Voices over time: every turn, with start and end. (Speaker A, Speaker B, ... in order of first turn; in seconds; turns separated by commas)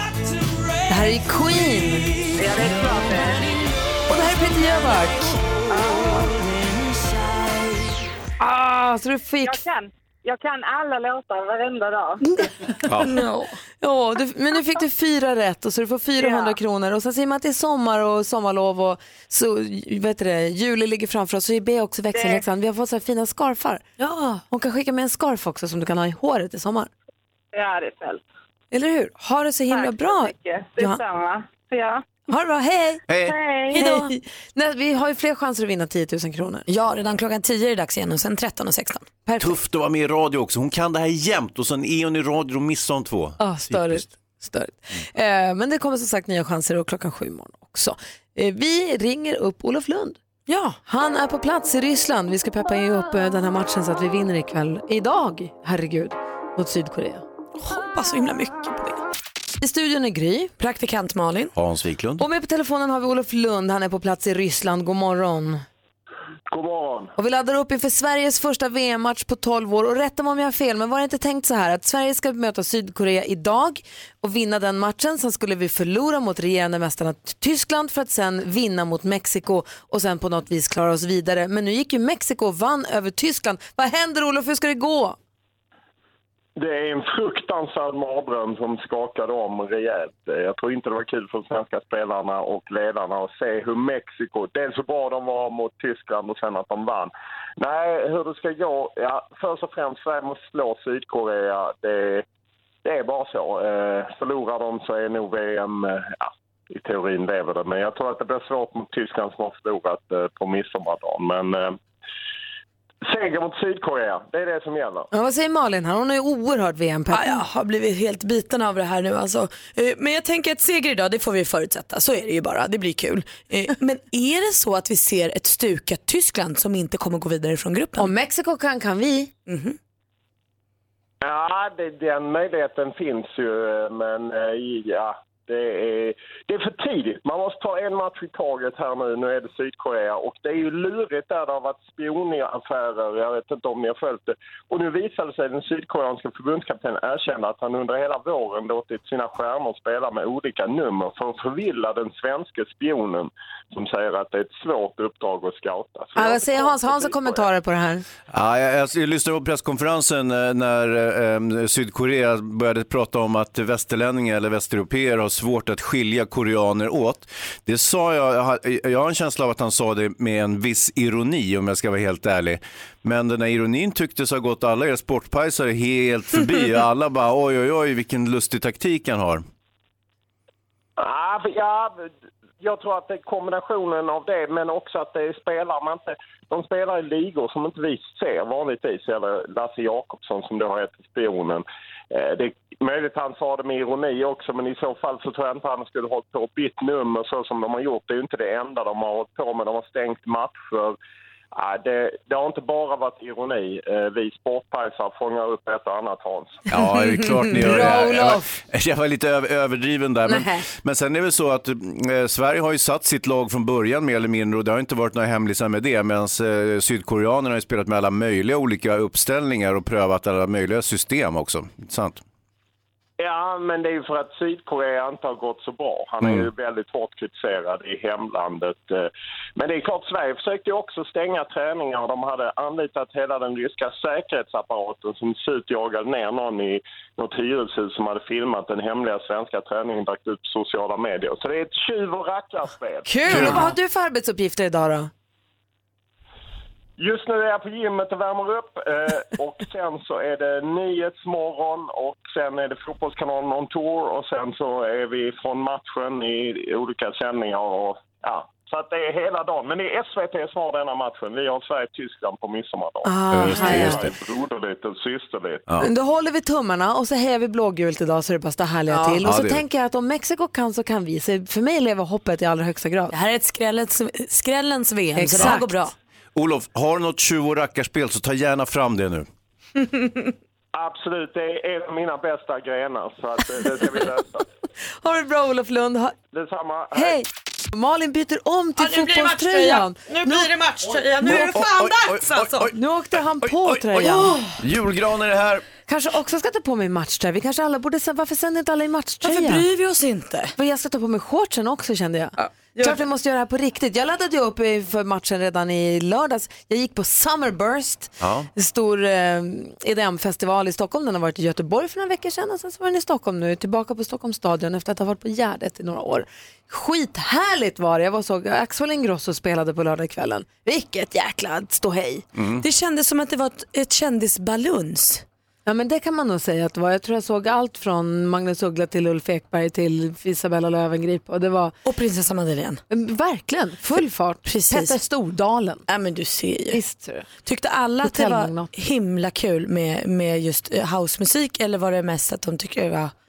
Speaker A: 0.9-2.2, Speaker B: 2.4-3.5, Speaker A: 4.1-5.4, Speaker B: 5.7-6.4, Speaker A: 8.4-9.6, Speaker B: 9.4-12.2, Speaker A: 12.3-12.5, Speaker C: 12.8-13.2, Speaker D: 13.0-13.6, Speaker A: 13.8-26.9, Speaker B: 16.2-16.6, Speaker B: 22.1-22.4, Speaker B: 27.5-28.2, Speaker A: 28.7-31.0, Speaker B: 29.7-32.0, Speaker A: 32.3-33.0, Speaker C: 33.1-33.4, Speaker B: 33.2-34.0, Speaker A: 33.7-36.6, Speaker D: 36.7-39.1, Speaker A: 39.2-39.5, Speaker C: 39.4-44.0, Speaker A: 43.4-50.2, Speaker D: 50.5-50.8, Speaker A: 50.9-57.2, Speaker D: 57.6-59.0, Speaker A: 59.6-60.5, Speaker D: 60.6-61.5, Speaker C: 61.5-62.3, Speaker A: 62.2-65.6, Speaker E: 66.5-67.1, Speaker A: 67.2-85.2, Speaker E: 86.6-102.2, Speaker E: 102.8-111.8, Speaker E: 113.0-115.1, Speaker A: 115.1-117.4, Speaker D: 117.1-128.1, Speaker A: 128.0-129.3, Speaker D: 129.5-129.8, Speaker E: 131.2-157.5, Speaker A: 156.2-158.1, Speaker C: 158.3-179.4, Speaker E: 181.0-182.1, Speaker E: 182.6-201.0, Speaker E: 201.5-206.7, Speaker C: 206.7-222.2, Speaker D: 207.0-207.3, Speaker A: 207.5-208.5, Speaker A: 210.3-210.7, Speaker E: 223.2-243.4, Speaker C: 226.2-226.5, Speaker A: 243.1-245.1, Speaker C: 243.3-243.7, Speaker E: 247.0-265.6, Speaker A: 263.1-264.1, Speaker C: 263.3-264.1, Speaker A: 265.8-273.1, Speaker D: 268.9-269.2, Speaker C: 269.2-269.6, Speaker D: 273.1-275.9, Speaker A: 275.2-275.9, Speaker C: 276.4-279.3, Speaker E: 280.8-284.4, Speaker A: 285.0-286.1, Speaker E: 286.3-287.1, Speaker A: 286.9-290.5, Speaker D: 288.8-292.7, Speaker A: 291.2-291.7, Speaker C: 291.2-292.8, Speaker A: 292.7-294.4, Speaker C: 293.4-295.7, Speaker D: 294.0-294.6, Speaker A: 295.9-299.7, Speaker D: 299.2-300.5, Speaker A: 300.6-322.2, Speaker D: 302.4-303.0, Speaker C: 308.2-308.5, Speaker C: 322.4-322.6, Speaker D: 322.6-325.2, Speaker A: 325.7-331.8, Speaker D: 331.9-332.8, Speaker A: 332.9-335.8, Speaker D: 334.5-334.9, Speaker D: 335.9-336.8, Speaker A: 336.7-337.3, Speaker D: 337.4-343.1, Speaker A: 338.0-338.7